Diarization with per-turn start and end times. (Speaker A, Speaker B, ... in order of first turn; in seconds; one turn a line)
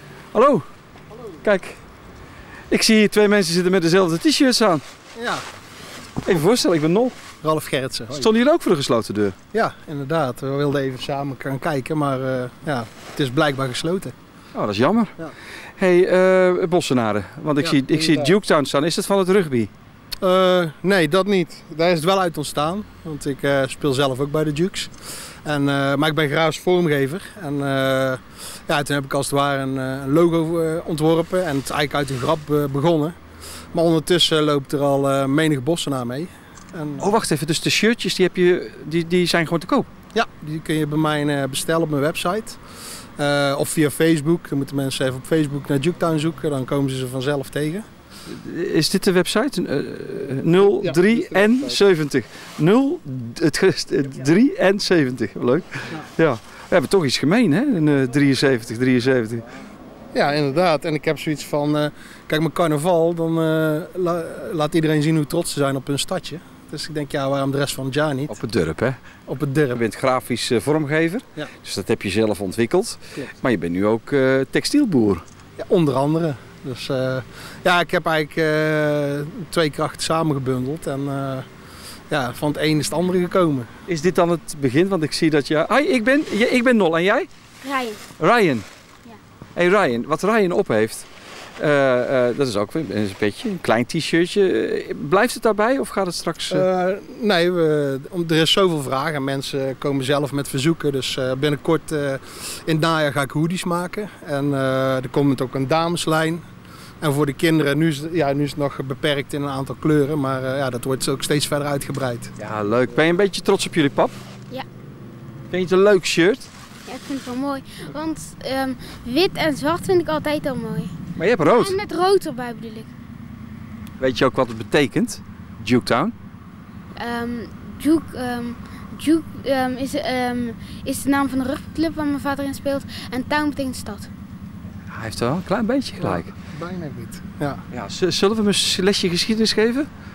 Speaker A: 0.3-0.7
Speaker A: 1.4-1.8
Speaker A: 2.7-4.8
Speaker B: 5.2-5.5
Speaker A: 6.2-7.2
Speaker B: 7.4-8.3
Speaker A: 8.1-9.4
Speaker B: 9.5-14.2
Speaker A: 14.5-15.2
Speaker A: 15.8-19.7
Speaker B: 17.6-18.4
Speaker B: 20.2-33.2
Speaker B: 33.7-37.1
Speaker A: 37.0-39.9
Speaker B: 40.1-42.6
Speaker B: 43.2-47.9
Speaker A: 48.3-59.5
Speaker B: 50.5-51.8
Speaker B: 60.1-68.3
Speaker A: 68.3-69.1
Speaker B: 69.3-69.8
Speaker A: 69.7-75.2
Speaker B: 75.6-81.5
Speaker B: 82.1-83.7
Speaker A: 83.9-87.3
Speaker C: 87.6-88.0
Speaker A: 88.2-88.7
Speaker A: 89.5-96.7
Speaker B: 96.5-106.5
Speaker B: 107.0-112.3
Speaker A: 112.4-114.2
Speaker A: 115.5-116.5
Speaker C: 116.9-122.9
Speaker A: 121.2-121.8
Speaker A: 124.0-126.2
Speaker C: 127.0-134.1
Speaker A: 134.9-136.3
Speaker B: 136.0-137.7
Speaker A: 137.7-139.9